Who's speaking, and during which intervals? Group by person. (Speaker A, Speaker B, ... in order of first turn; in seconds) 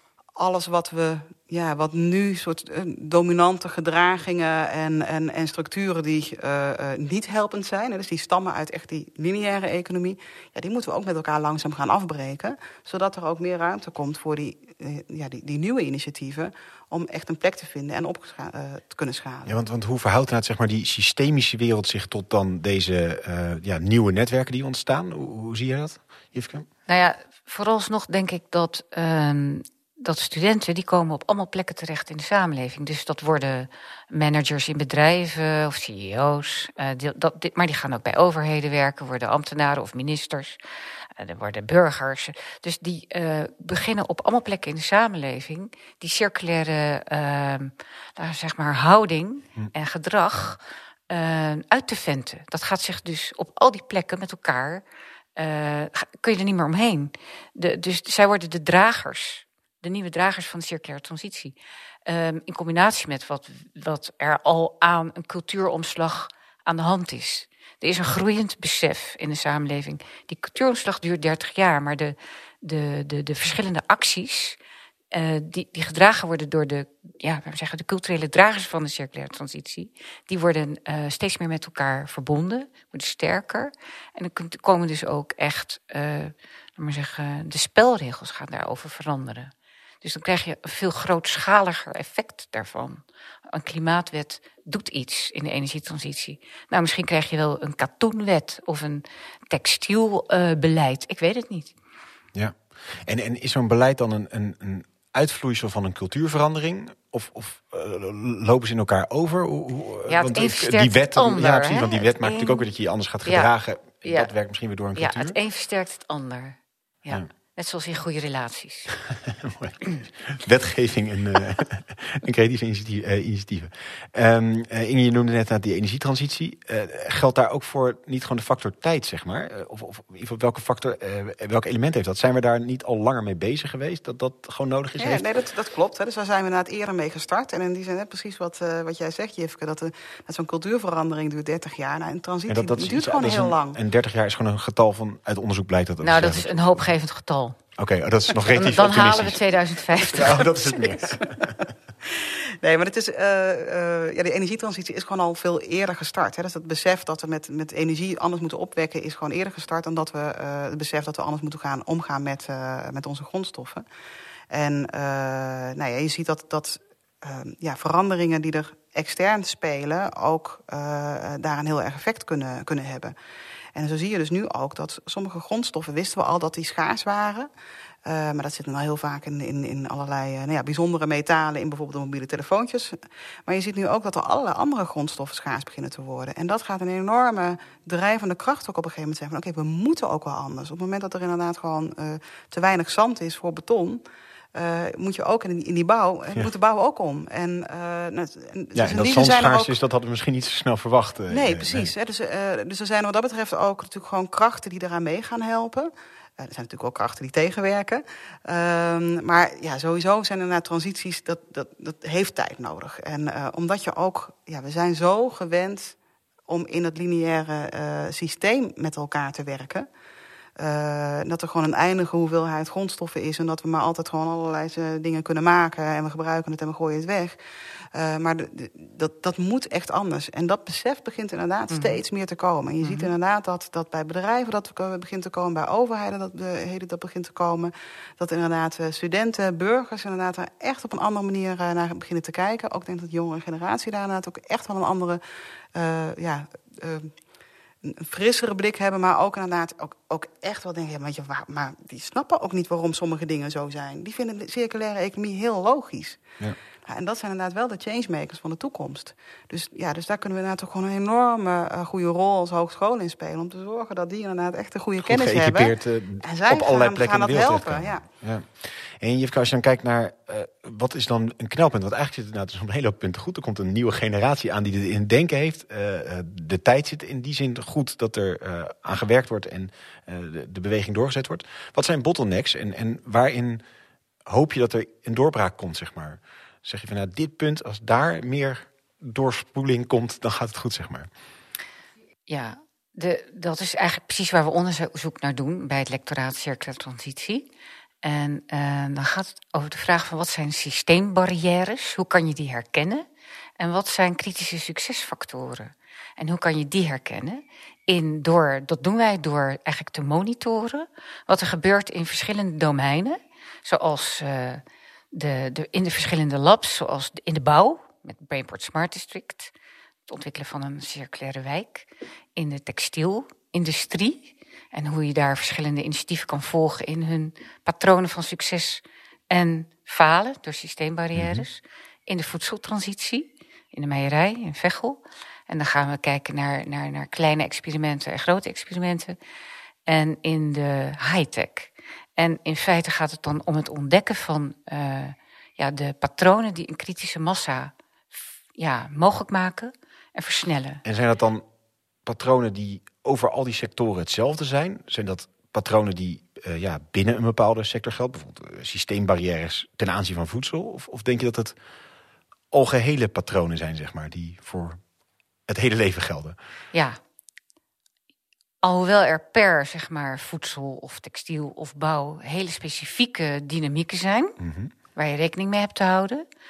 Speaker A: 0.4-19.6, 135.0-143.8, 152.1-163.8, 164.5-173.2, 173.8-177.5, 178.1-194.0, 194.6-199.8, 201.3-219.9, 220.6-227.4, 227.9-245.2, 245.8-247.1, 247.8-256.2, 256.9-268.1
Speaker B: 19.5-26.7, 102.3-115.4, 119.1-135.3, 142.5-146.7, 147.8-149.4, 150.0-151.5, 198.8-201.9, 265.0-283.6, 284.3-291.1, 331.2-331.4, 350.9-351.4, 352.1-361.6, 362.5-364.8, 365.5-366.4, 374.4-374.7
Speaker C: 26.9-40.6, 41.2-54.8, 55.4-61.5, 62.1-74.6, 75.1-101.7, 110.1-112.7, 113.2-113.5, 114.0-114.3, 115.0-118.9, 146.0-147.6, 148.5-150.8, 231.7-232.0, 232.8-233.1, 292.3-297.5, 298.0-303.1, 303.6-319.5, 320.1-339.2, 339.9-350.8, 366.7-367.0, 368.6-374.4, 374.9-376.2